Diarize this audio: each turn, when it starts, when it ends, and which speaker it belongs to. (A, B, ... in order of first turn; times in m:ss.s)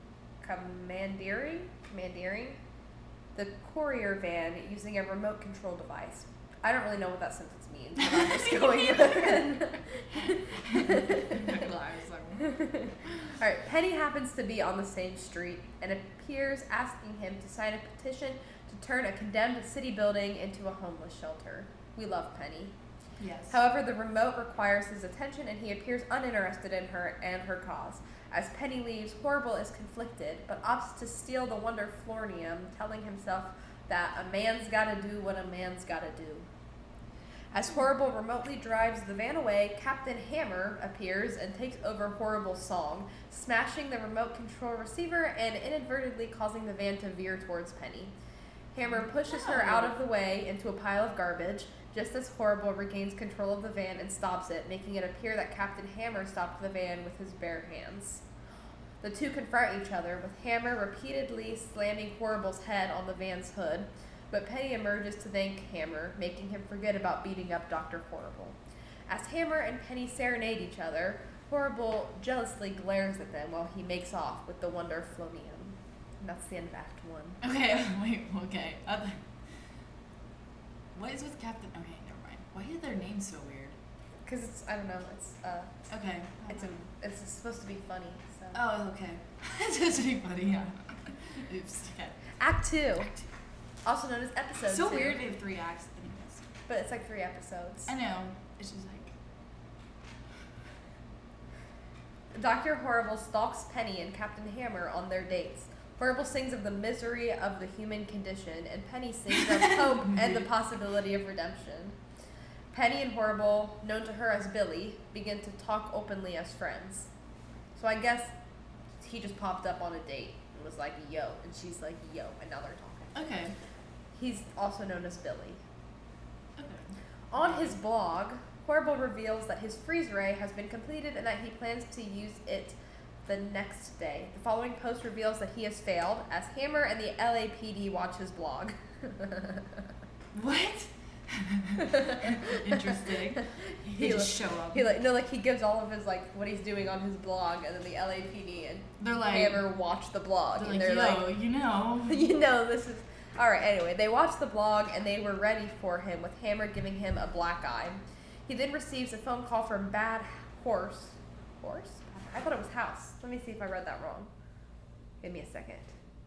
0:00.4-0:02.6 A
0:03.4-0:11.6 A
0:08.0-0:09.6 B
0:10.1-0:12.6 B
0:12.4-0:22.7 A
0:23.2-0:23.6 B
0:23.5-0:36.5 A
0:37.5-0:48.1 A
0:48.7-0:58.2 A
0:48.8-0:50.0 B
0:59.0-1:08.6 A
1:09.1-1:17.4 A
1:17.4-1:19.2 B
1:20.9-1:23.8 B
1:24.3-1:25.7 A
1:25.9-1:26.7 B
1:26.5-1:28.6 A
1:28.5-1:32.2 B
1:32.4-1:33.1 A
1:33.8-1:35.2 A
1:34.7-1:36.4 B
1:36.7-1:37.9 A
1:37.9-1:39.1 B
1:42.3-1:52.0 A
1:50.1-1:50.4 B
1:52.7-1:57.1 A
1:57.8-1:58.3 A
1:59.0-2:03.2 A
2:03.1-2:03.6 B
2:04.1-2:05.6 A
2:06.6-2:07.7 B
2:07.3-2:19.8 A
2:20.3-2:24.9 B
2:21.9-2:22.8 A
2:23.9-2:31.3 A
2:29.0-2:29.7 B
2:30.6-2:32.3 B
2:32.1-2:44.3 A
2:45.2-2:45.9 A